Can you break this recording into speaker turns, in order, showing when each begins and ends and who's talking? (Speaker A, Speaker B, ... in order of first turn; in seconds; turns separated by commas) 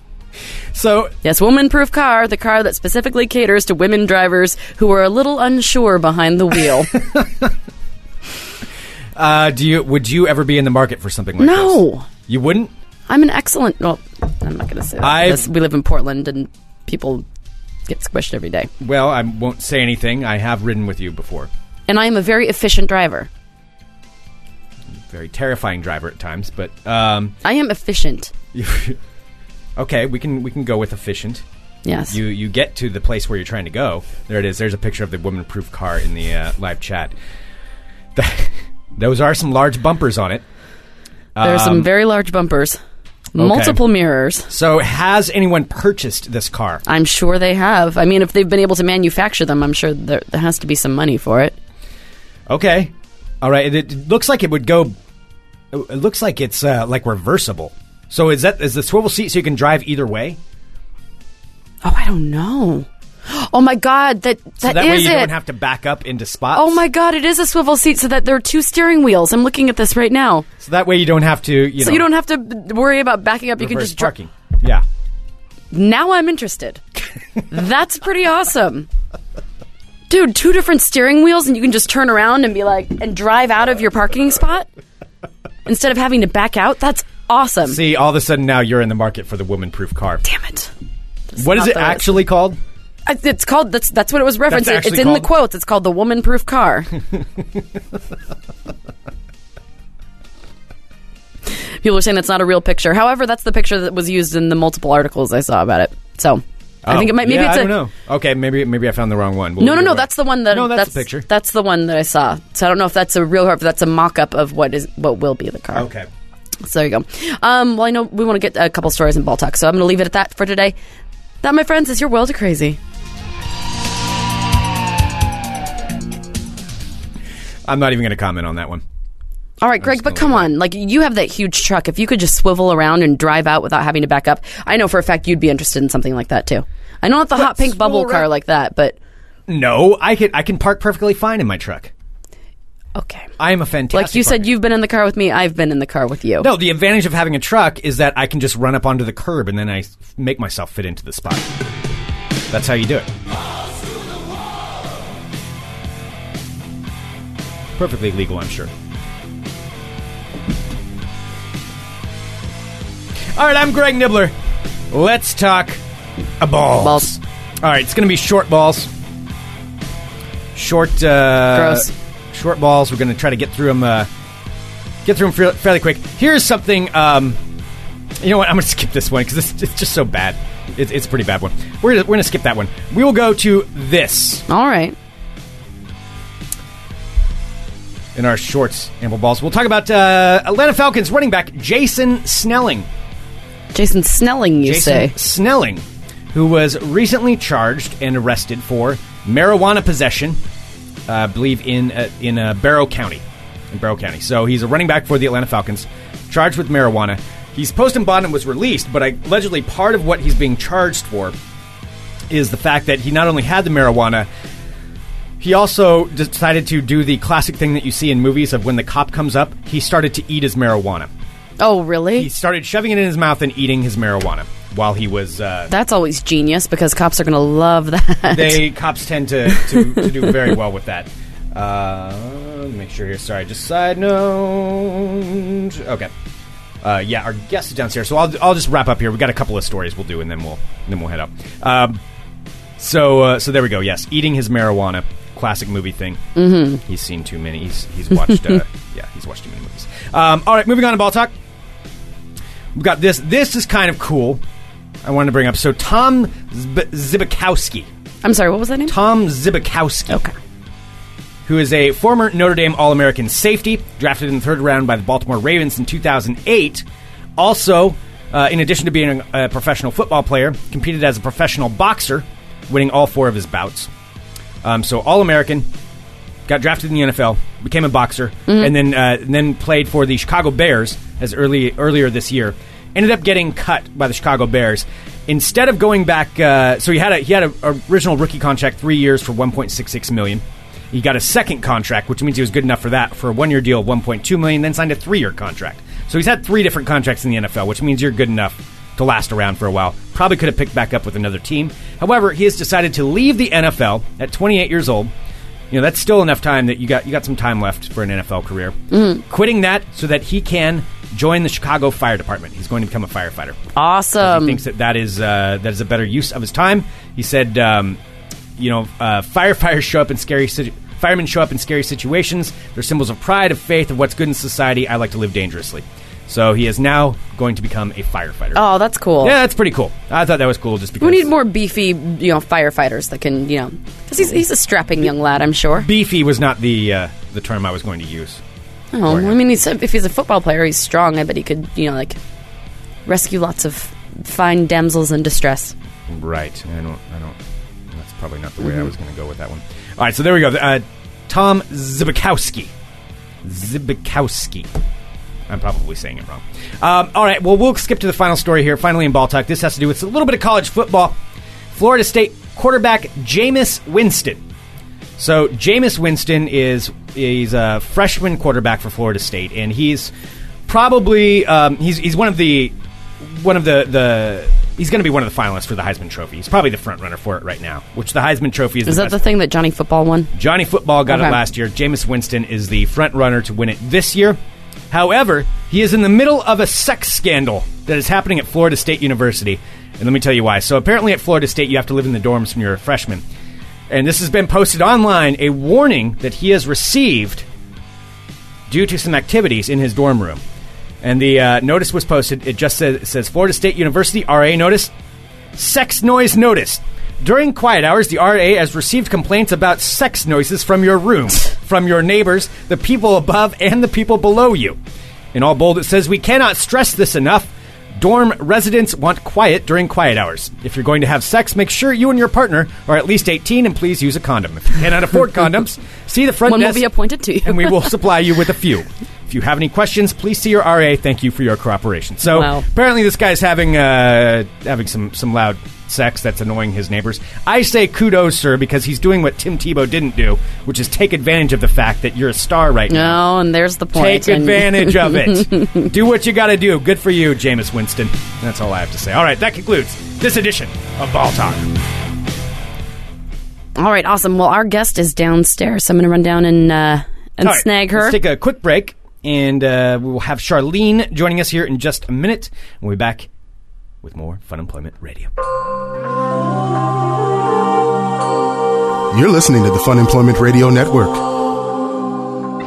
Speaker A: 0.7-1.1, Speaker B: 1.2-6.9, Speaker A: 7.0-7.5, Speaker A: 9.2-12.7, Speaker B: 11.4-12.1, Speaker B: 13.1-17.2, Speaker A: 15.0-15.5, Speaker B: 17.9-18.7, Speaker A: 18.8-21.5, Speaker B: 21.9-23.3, Speaker A: 25.1-27.4, Speaker B: 27.4-28.3, Speaker A: 28.5-29.0, Speaker A: 29.8-31.4, Speaker B: 31.9-32.2, Speaker A: 32.1-37.1, Speaker A: 38.1-40.4, Speaker A: 41.4-41.9, Speaker B: 41.4-42.8, Speaker A: 43.4-43.8, Speaker B: 43.4-44.5, Speaker A: 44.5-46.8, Speaker B: 46.9-51.6, Speaker A: 52.5-55.0, Speaker A: 55.7-60.4, Speaker B: 61.8-65.3, Speaker A: 64.6-66.8, Speaker B: 66.5-70.5, Speaker A: 70.6-72.1, Speaker B: 71.8-74.1, Speaker A: 73.6-74.8, Speaker B: 75.7-76.8, Speaker B: 77.5-78.9, Speaker B: 80.1-84.7, Speaker B: 85.7-87.8, Speaker A: 87.7-90.2, Speaker B: 90.2-90.7, Speaker B: 91.3-92.2, Speaker A: 91.4-92.6, Speaker B: 93.1-96.9, Speaker A: 94.5-95.3, Speaker B: 101.8-107.8, Speaker A: 106.8-111.3, Speaker B: 109.6-115.9, Speaker A: 115.7-116.1, Speaker B: 116.6-120.8, Speaker B: 121.4-122.8, Speaker A: 127.7-128.8, Speaker B: 129.6-139.0, Speaker A: 129.8-130.5, Speaker A: 137.4-138.3, Speaker A: 139.5-141.9, Speaker B: 142.9-143.3, Speaker A: 143.4-144.5, Speaker B: 143.9-146.5, Speaker A: 146.4-151.5, Speaker A: 152.5-153.1, Speaker A: 157.8-158.7, Speaker A: 163.3-164.3, Speaker A: 164.9-165.8, Speaker A: 166.4-168.9, Speaker B: 166.8-167.2, Speaker A: 170.5-174.1, Speaker B: 171.5-171.9, Speaker A: 175.0-177.4, Speaker A: 178.2-184.4, Speaker B: 184.5-184.9, Speaker A: 188.2-192.9, Speaker B: 193.7-195.1, Speaker A: 194.6-200.4, Speaker A: 201.1-211.4, Speaker A: 212.3-214.3, Speaker A: 215.4-221.1, Speaker B: 221.6-222.3, Speaker A: 222.2-225.7, Speaker B: 225.7-228.6, Speaker A: 228.3-236.1, Speaker B: 229.6-230.2, Speaker A: 236.8-242.0, Speaker A: 242.8-251.3, Speaker B: 246.4-246.8, Speaker A: 252.8-254.4, Speaker A: 255.0-257.9, Speaker B: 258.2-258.9, Speaker A: 258.9-260.2, Speaker A: 261.5-266.9, Speaker A: 267.4-273.9, Speaker A: 274.6-275.7, Speaker A: 276.5-305.1, Speaker B: 278.5-278.7, Speaker A: 305.7-313.6, Speaker B: 308.9-309.2, Speaker B: 313.8-314.6, Speaker A: 314.2-318.0, Speaker A: 318.6-328.6, Speaker B: 328.6-329.4, Speaker A: 329.2-331.3, Speaker B: 331.0-335.9, Speaker A: 335.8-338.4, Speaker B: 338.9-342.2, Speaker A: 339.1-339.4, Speaker B: 343.1-345.7, Speaker A: 346.1-347.4, Speaker A: 347.9-352.7, Speaker A: 353.4-354.7, Speaker A: 355.5-361.2, Speaker A: 361.7-364.4, Speaker A: 365.2-370.1, Speaker A: 370.7-379.2, Speaker B: 378.9-380.3, Speaker A: 380.3-384.4, Speaker B: 381.1-381.4, Speaker A: 384.9-393.2, Speaker A: 393.9-397.5, Speaker A: 398.7-400.4, Speaker A: 401.0-404.9, Speaker A: 405.6-414.8, Speaker A: 415.3-426.9, Speaker B: 426.5-427.9, Speaker A: 427.4-443.2, Speaker B: 432.3-432.6, Speaker B: 442.9-445.9, Speaker A: 443.9-451.7, Speaker B: 453.8-458.2, Speaker A: 457.4-463.3, Speaker A: 464.0-465.3, Speaker C: 469.1-471.2